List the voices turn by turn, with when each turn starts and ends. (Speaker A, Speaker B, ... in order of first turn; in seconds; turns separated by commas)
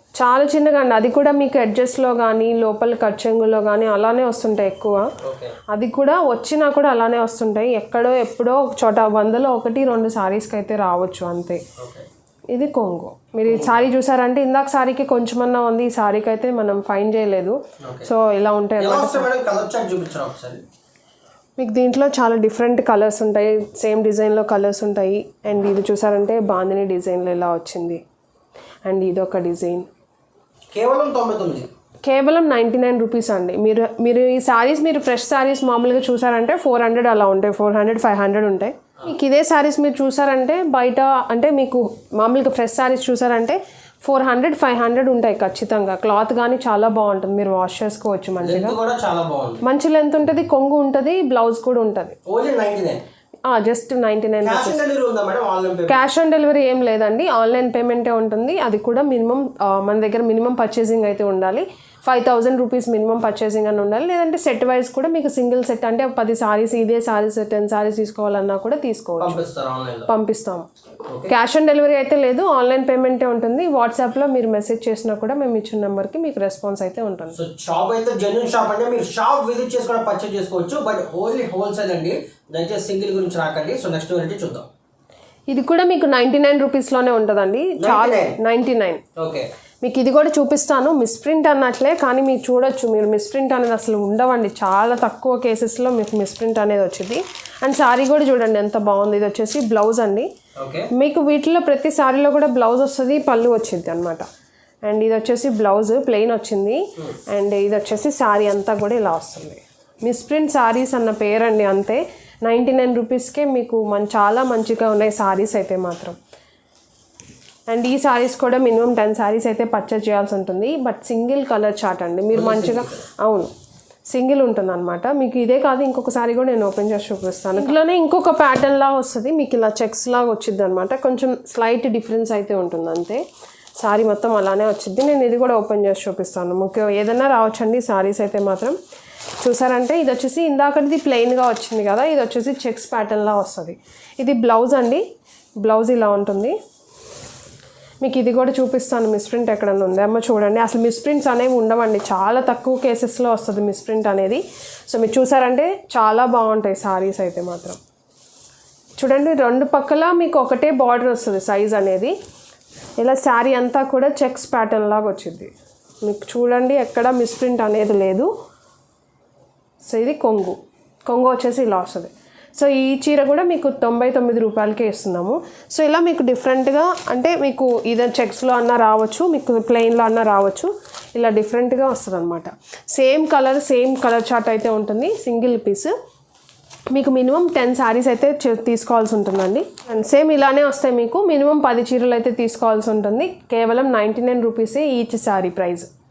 Speaker A: 0.2-5.1, Speaker B: 5.2-5.5, Speaker A: 5.7-11.6, Speaker B: 11.8-12.1, Speaker A: 12.5-19.3, Speaker B: 13.5-13.9, Speaker B: 17.8-18.1, Speaker B: 18.8-20.6, Speaker A: 21.6-28.0, Speaker A: 28.8-29.9, Speaker B: 30.7-31.7, Speaker A: 32.0-48.8, Speaker B: 48.4-49.6, Speaker A: 49.6-52.2, Speaker B: 52.2-53.0, Speaker A: 53.5-54.8, Speaker B: 54.4-56.0, Speaker A: 55.9-69.4, Speaker B: 69.2-70.1, Speaker A: 70.1-70.7, Speaker B: 71.1-71.3, Speaker A: 71.3-77.4, Speaker B: 77.3-84.7, Speaker A: 85.5-89.0, Speaker B: 87.8-88.4, Speaker B: 89.2-89.5, Speaker A: 89.8-100.3, Speaker B: 100.6-100.9, Speaker A: 100.9-104.2, Speaker A: 104.8-116.2, Speaker A: 117.7-123.5, Speaker B: 122.3-123.0, Speaker A: 124.1-133.2, Speaker A: 133.8-138.8, Speaker A: 139.4-145.0, Speaker A: 145.6-146.6, Speaker A: 148.0-157.8, Speaker A: 159.0-162.1, Speaker A: 163.0-165.5, Speaker A: 166.0-168.3, Speaker A: 169.8-185.9, Speaker A: 186.9-195.9